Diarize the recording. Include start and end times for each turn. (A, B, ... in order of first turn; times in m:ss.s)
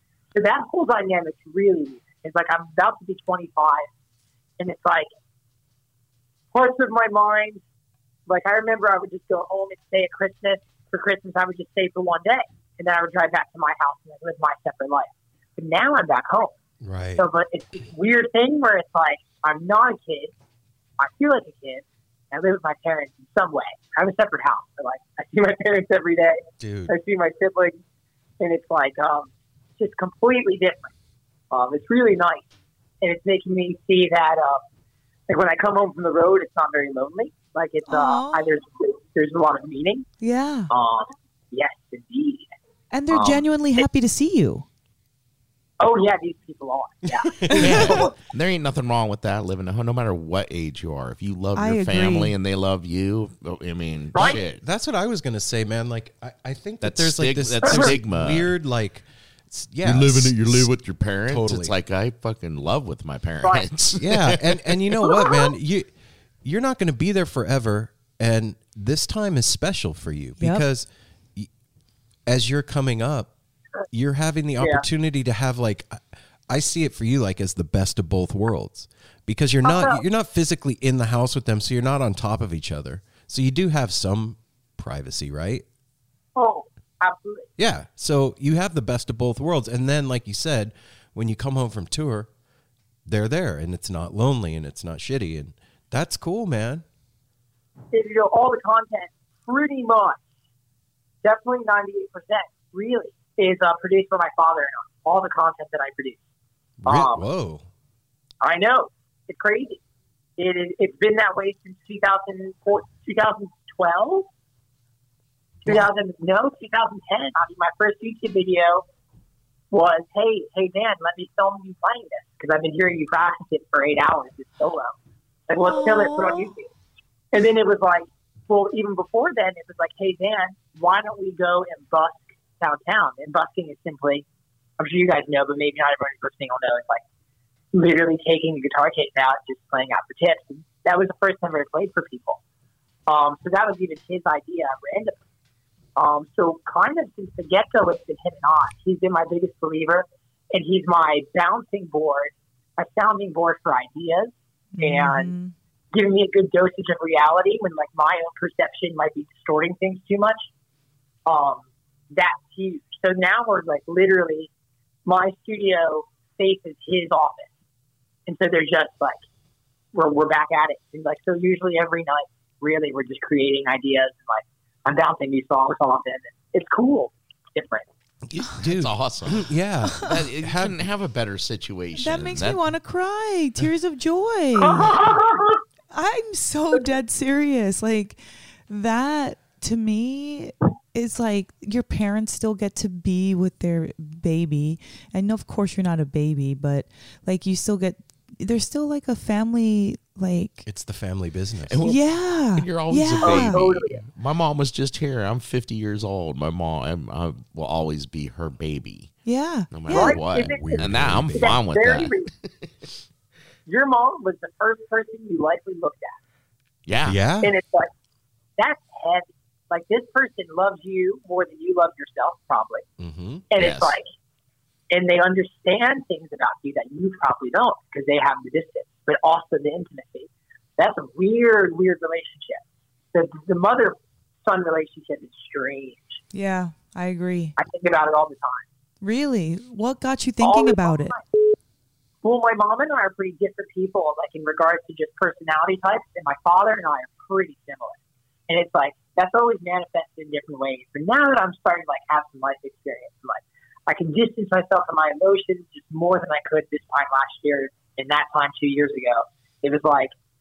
0:00.3-0:03.9 A
0:04.6-0:05.1 A
0:06.5-0:07.6 A
0:08.3-0:16.6 A
0:16.8-0:17.3 B
0:17.2-0:20.3 A
0:21.0-0:27.8 A
0:26.6-0:26.9 B
0:28.4-0:30.9 A
0:31.5-0:32.5 A
0:33.0-0:34.6 A
0:35.3-0:40.1 A
0:37.9-0:38.5 C
0:40.2-0:40.7 C
0:40.7-0:42.5 A
0:42.9-0:44.7 C
0:43.1-0:43.8 A
0:45.8-0:48.1 A
0:47.4-0:48.0 B
0:47.6-0:54.6 D
0:51.6-0:52.4 C
0:54.2-1:00.7 B
0:56.8-0:58.6 D
0:57.6-0:58.0 A
0:59.8-1:05.0 D
1:01.3-1:01.7 B
1:04.0-1:05.9 B
1:06.4-1:11.5 B
1:10.4-1:10.7 C
1:12.3-1:13.3 B
1:13.9-1:25.6 B
1:19.6-1:20.0 A
1:26.4-1:27.5 A
1:27.6-1:32.3 B
1:33.1-1:36.8 B
1:37.9-1:40.2 A
1:41.2-1:46.2 A
1:46.8-1:47.7 B
1:46.9-1:47.3 A
1:48.4-1:49.8 A
1:50.4-1:54.3 A
1:55.6-1:58.8 A
1:59.7-2:05.0 A
2:05.5-2:06.7 A
2:05.6-2:06.5 C
2:07.3-2:14.2 A
2:14.8-2:17.0 A
2:17.7-2:22.4 A
2:23.1-2:25.2 A
2:26.0-2:35.3 A
2:34.7-2:35.5 C
2:35.9-2:40.5 A
2:41.3-2:44.5 A
2:45.1-2:47.5 A
2:48.3-2:49.2 A
2:49.9-2:57.9 A
2:58.3-3:00.8 B
2:58.5-3:02.6 D
3:02.0-3:05.0 C
3:04.6-3:05.6 A
3:05.9-3:20.7 C
3:20.7-3:21.8 B
3:21.7-3:29.2 D
3:21.8-3:23.6 C
3:23.2-3:24.0 A
3:29.3-3:30.2 C
3:29.7-3:32.3 D
3:29.9-3:32.3 A
3:30.4-3:31.6 B
3:33.7-3:36.2 A
3:36.9-3:37.2 D
3:37.0-3:37.5 B
3:37.4-3:37.9 A
3:38.6-3:42.8 A
3:43.0-3:43.4 B
3:43.5-3:44.0 A
3:43.6-3:44.0 D
3:44.9-3:56.2 A
3:56.3-3:57.6 C
3:57.6-3:58.6 A
3:59.0-4:01.2 C
4:00.4-4:01.2 A
4:02.2-4:08.0 A
4:08.5-4:20.1 A